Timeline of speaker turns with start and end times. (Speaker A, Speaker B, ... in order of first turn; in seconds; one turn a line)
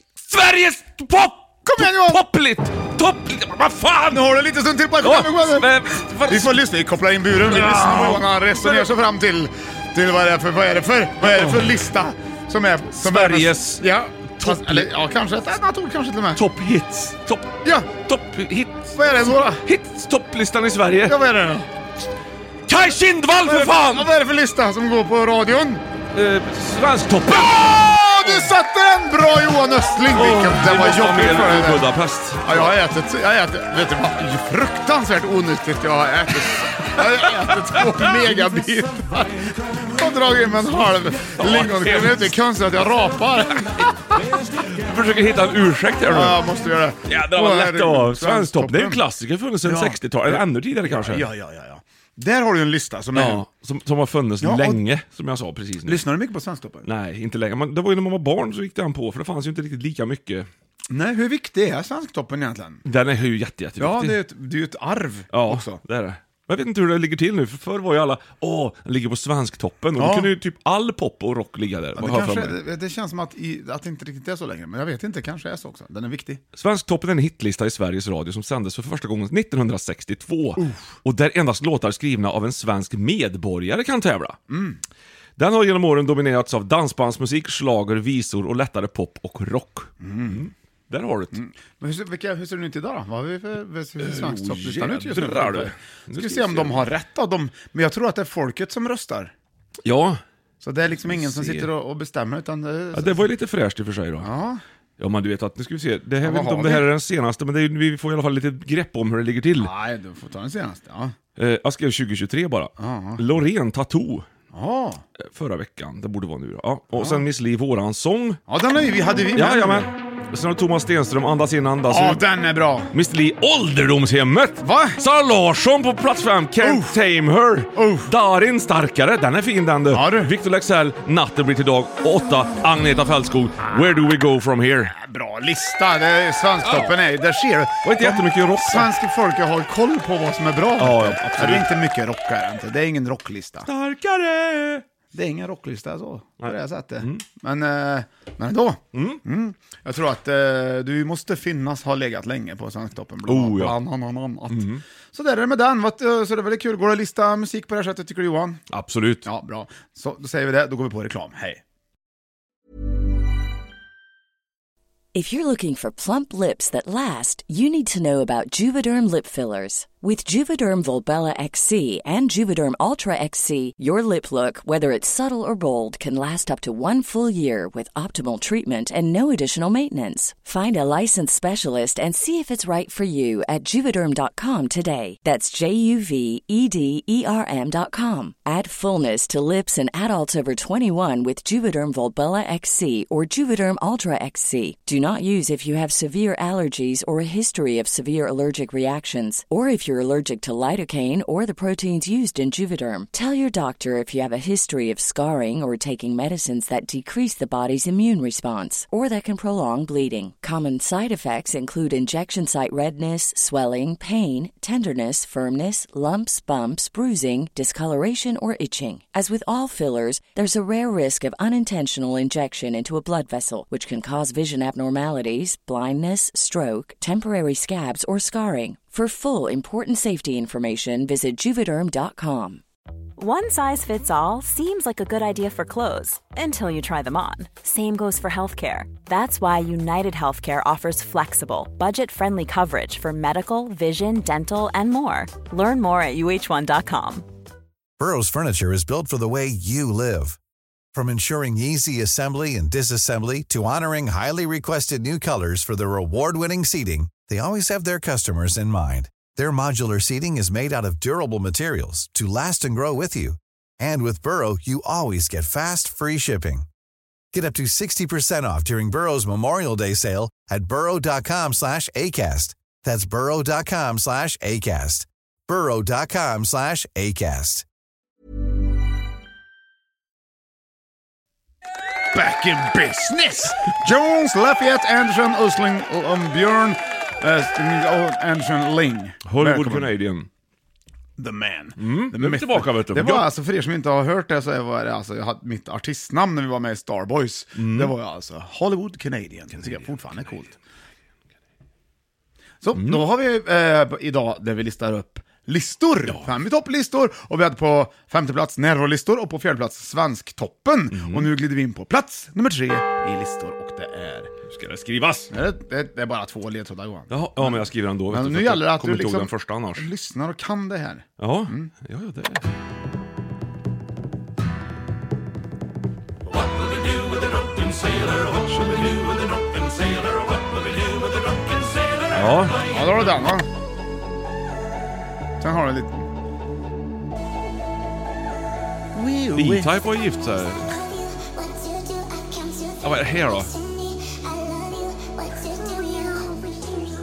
Speaker A: 0.3-4.4
Speaker B: 1.7-2.2
Speaker B: 4.1-16.4
Speaker A: 5.0-6.6
Speaker A: 7.4-8.9
Speaker A: 11.2-11.7
Speaker A: 13.0-13.8
Speaker A: 14.4-14.9
Speaker A: 16.4-21.2
Speaker B: 17.6-17.9
Speaker B: 19.0-19.6
Speaker B: 21.1-21.7
Speaker A: 22.7-24.1
Speaker B: 23.3-25.8
Speaker A: 26.1-28.5
Speaker B: 27.4-31.9
Speaker A: 30.1-32.7
Speaker B: 32.5-43.9
Speaker A: 41.4-42.4
Speaker A: 44.6-46.4
Speaker B: 46.1-49.0
Speaker A: 47.1-51.3
Speaker B: 49.6-53.4
Speaker A: 53.1-56.0
Speaker B: 54.4-54.8
Speaker B: 55.9-56.9
Speaker A: 56.9-60.5
Speaker B: 60.9-62.8
Speaker A: 62.9-64.2
Speaker B: 63.8-65.8
Speaker A: 65.3-72.6
Speaker B: 70.0-70.3
Speaker B: 72.0-76.4
Speaker A: 76.6-84.4
Speaker B: 80.6-80.9
Speaker B: 84.5-84.8
Speaker A: 85.4-91.4
Speaker B: 90.0-90.5
Speaker B: 91.3-99.3
Speaker A: 94.0-96.9
Speaker A: 99.8-100.2
Speaker B: 100.6-103.2
Speaker A: 101.0-101.7
Speaker A: 102.9-104.3
Speaker B: 104.2-104.6
Speaker A: 105.0-109.7
Speaker B: 106.2-106.9
Speaker B: 109.6-111.2
Speaker A: 111.4-114.3
Speaker B: 112.8-113.2
Speaker B: 114.5-115.0
Speaker A: 115.2-118.4
Speaker B: 117.0-117.2
Speaker B: 118.5-119.9
Speaker A: 119.3-122.2
Speaker B: 121.9-122.9
Speaker A: 122.9-134.9
Speaker B: 124.6-125.0
Speaker B: 126.6-126.9
Speaker B: 127.8-128.1
Speaker B: 129.9-130.3
Speaker B: 135.0-143.7
Speaker A: 136.6-137.0
Speaker A: 137.8-138.9
Speaker A: 140.8-141.7
Speaker A: 143.7-144.8
Speaker B: 145.1-158.6
Speaker A: 146.4-147.2
Speaker A: 148.9-149.2
Speaker A: 153.3-153.8
Speaker A: 154.5-154.8
Speaker A: 158.7-159.3
Speaker B: 159.2-161.6
Speaker C: 165.1-232.6
Speaker D: 233.2-247.3
Speaker E: 248.0-250.4
Speaker E: 250.9-266.7
Speaker E: 267.3-277.6
Speaker B: 282.1-289.9
Speaker A: 289.3-290.3
Speaker B: 291.2-300.5
Speaker A: 291.8-293.3
Speaker A: 297.6-297.9
Speaker B: 302.6-314.3
Speaker A: 302.7-303.1
Speaker A: 310.9-311.3
Speaker A: 314.5-315.3
Speaker B: 315.3-321.7
Speaker A: 317.1-319.9
Speaker A: 321.2-322.4
Speaker A: 326.4-329.8
Speaker A: 332.1-332.6
Speaker B: 332.7-333.5
Speaker B: 335.4-336.1
Speaker B: 338.9-339.7
Speaker A: 339.4-340.8
Speaker A: 342.8-343.5